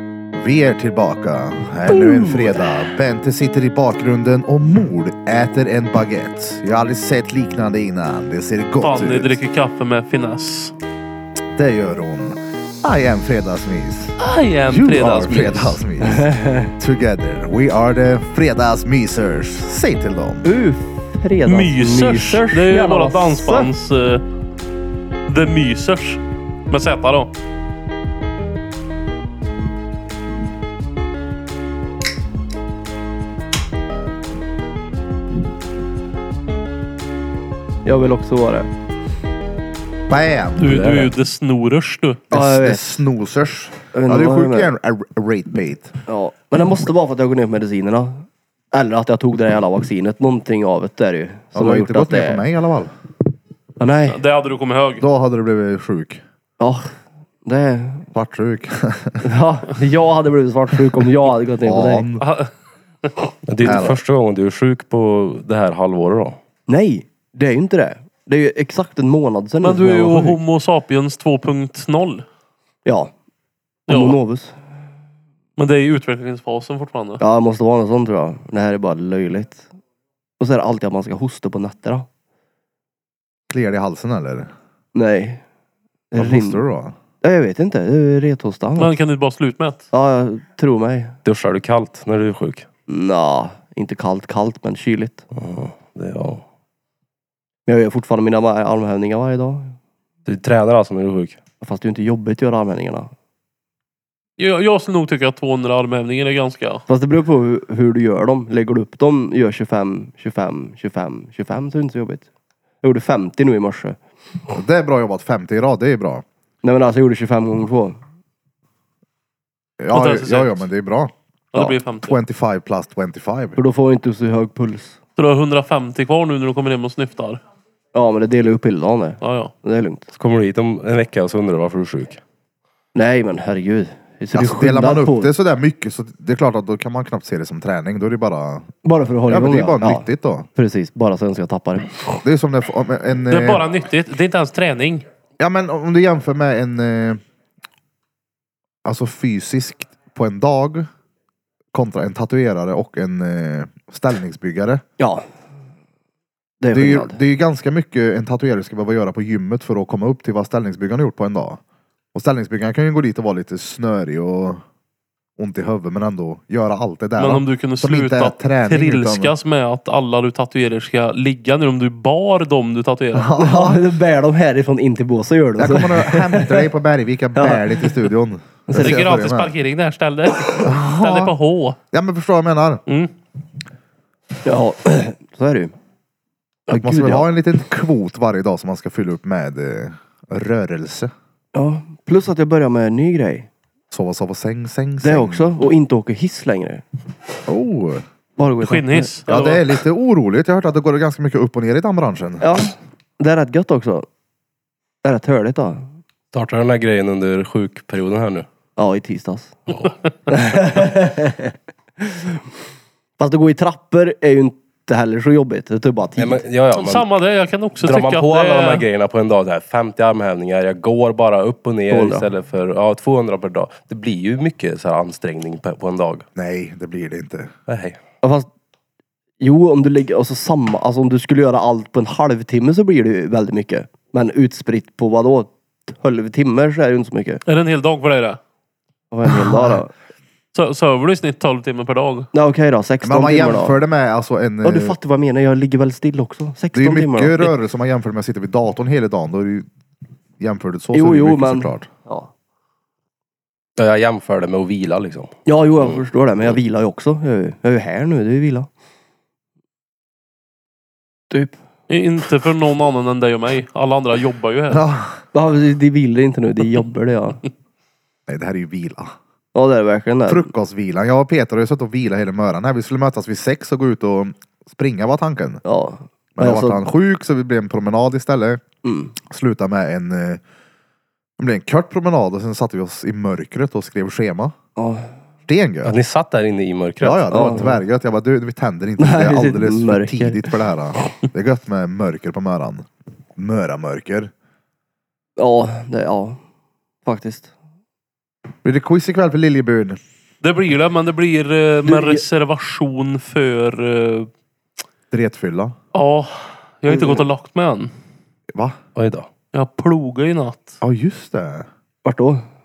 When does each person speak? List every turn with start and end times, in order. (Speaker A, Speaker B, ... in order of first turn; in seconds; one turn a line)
Speaker A: 0.4-9.4
Speaker B: 1.9-2.7
Speaker C: 8.8-10.7
Speaker A: 11.6-14.1
Speaker C: 14.2-15.8
Speaker A: 14.7-20.4
Speaker B: 16.0-16.7
Speaker B: 20.4-23.7
Speaker C: 21.4-24.2
Speaker C: 25.3-27.3
Speaker B: 37.8-38.7
Speaker A: 40.1-40.8
Speaker C: 40.6-42.3
Speaker D: 40.6-41.1
Speaker A: 42.3-46.0
Speaker B: 42.3-43.0
Speaker B: 43.9-44.7
Speaker B: 46.1-52.5
Speaker A: 51.5-52.9
Speaker B: 53.8-54.2
Speaker C: 54.0-55.0
Speaker A: 55.0-56.2
Speaker B: 56.6-56.9
Speaker B: 57.5-58.1
Speaker A: 58.1-59.2
Speaker B: 59.2-62.1
Speaker A: 61.6-62.2
Speaker C: 62.2-62.5
Speaker D: 63.5-66.4
Speaker A: 63.6-64.0
Speaker C: 63.6-63.9
Speaker B: 66.7-70.4
Speaker C: 69.6-72.2
Speaker B: 72.8-73.1
Speaker C: 73.9-74.2
Speaker B: 73.9-74.5
Speaker C: 75.6-77.2
Speaker B: 77.2-79.7
Speaker B: 80.4-82.1
Speaker A: 83.5-84.5
Speaker B: 84.9-85.4
Speaker B: 86.1-86.6
Speaker A: 86.2-87.0
Speaker B: 87.2-89.0
Speaker C: 88.8-89.8
Speaker B: 89.9-91.2
Speaker D: 91.2-92.7
Speaker B: 92.9-95.2
Speaker D: 95.3-96.4
Speaker B: 97.7-99.8
Speaker D: 100.2-101.4
Speaker B: 101.6-103.1
Speaker C: 104.4-106.8
Speaker B: 106.9-112.2
Speaker B: 112.8-114.0
Speaker A: 114.5-116.2
Speaker B: 116.6-118.0
Speaker A: 119.8-121.1
Speaker C: 119.9-120.7
Speaker C: 121.5-122.2
Speaker A: 122.0-123.6
Speaker B: 123.5-125.0
Speaker C: 125.2-127.4
Speaker B: 127.9-130.1
Speaker C: 129.2-129.5
Speaker D: 130.2-132.2
Speaker B: 132.9-135.3
Speaker A: 134.3-138.7
Speaker B: 138.8-142.2
Speaker A: 139.3-140.5
Speaker A: 142.2-143.7
Speaker C: 143.3-145.1
Speaker A: 145.4-147.2
Speaker A: 148.8-150.9
Speaker A: 151.7-154.8
Speaker B: 155.0-155.2
Speaker B: 156.6-157.2
Speaker A: 156.7-161.6
Speaker A: 162.1-164.6
Speaker A: 165.4-169.3
Speaker C: 167.2-173.3
Speaker A: 173.1-173.8
Speaker B: 173.3-176.7
Speaker A: 175.6-179.5
Speaker B: 177.4-178.1
Speaker B: 178.7-179.0
Speaker C: 178.7-181.8
Speaker A: 180.6-181.3
Speaker A: 181.9-182.8
Speaker B: 184.4-185.7
Speaker B: 186.7-187.3
Speaker A: 186.7-191.1
Speaker B: 191.5-193.5
Speaker A: 193.9-195.5
Speaker B: 195.0-196.8
Speaker A: 197.5-198.1
Speaker B: 198.4-199.2
Speaker C: 198.6-199.7
Speaker A: 199.3-202.5
Speaker B: 202.4-204.1
Speaker B: 205.0-205.9
Speaker D: 206.3-208.5
Speaker B: 208.8-209.6
Speaker B: 210.3-212.2
Speaker B: 213.2-216.4
Speaker D: 216.2-217.1
Speaker C: 216.7-218.9
Speaker D: 217.8-226.2
Speaker B: 221.9-222.3
Speaker A: 226.4-227.5
Speaker D: 227.7-228.0
Speaker B: 228.2-228.5
Speaker B: 229.4-237.4
Speaker C: 237.5-238.4
Speaker B: 239.1-239.9
Speaker A: 239.3-239.8
Speaker C: 240.5-242.3
Speaker B: 242.3-243.8
Speaker A: 243.0-245.0
Speaker B: 244.6-247.5
Speaker A: 246.7-249.7
Speaker A: 250.4-251.9
Speaker B: 250.9-252.3
Speaker D: 253.8-255.3
Speaker B: 255.4-258.7
Speaker B: 261.3-261.6
Speaker C: 261.9-264.9
Speaker A: 264.7-265.2
Speaker B: 265.3-267.4
Speaker A: 268.3-269.1
Speaker B: 269.5-270.5
Speaker A: 270.3-275.6
Speaker B: 275.6-276.9
Speaker A: 276.4-278.6
Speaker B: 278.8-279.2
Speaker A: 279.2-280.4
Speaker A: 281.4-284.6
Speaker B: 284.8-285.1
Speaker A: 285.4-285.9
Speaker D: 285.8-287.3
Speaker A: 287.0-294.3
Speaker B: 287.3-287.8
Speaker B: 289.0-290.6
Speaker B: 295.4-296.4
Speaker B: 297.1-297.5
Speaker A: 298.6-300.0
Speaker C: 300.4-304.3
Speaker B: 301.9-302.2
Speaker A: 305.1-305.8
Speaker C: 305.9-307.9
Speaker B: 306.9-307.3
Speaker D: 308.9-309.3
Speaker C: 309.5-310.8
Speaker A: 310.8-311.7
Speaker B: 312.1-312.4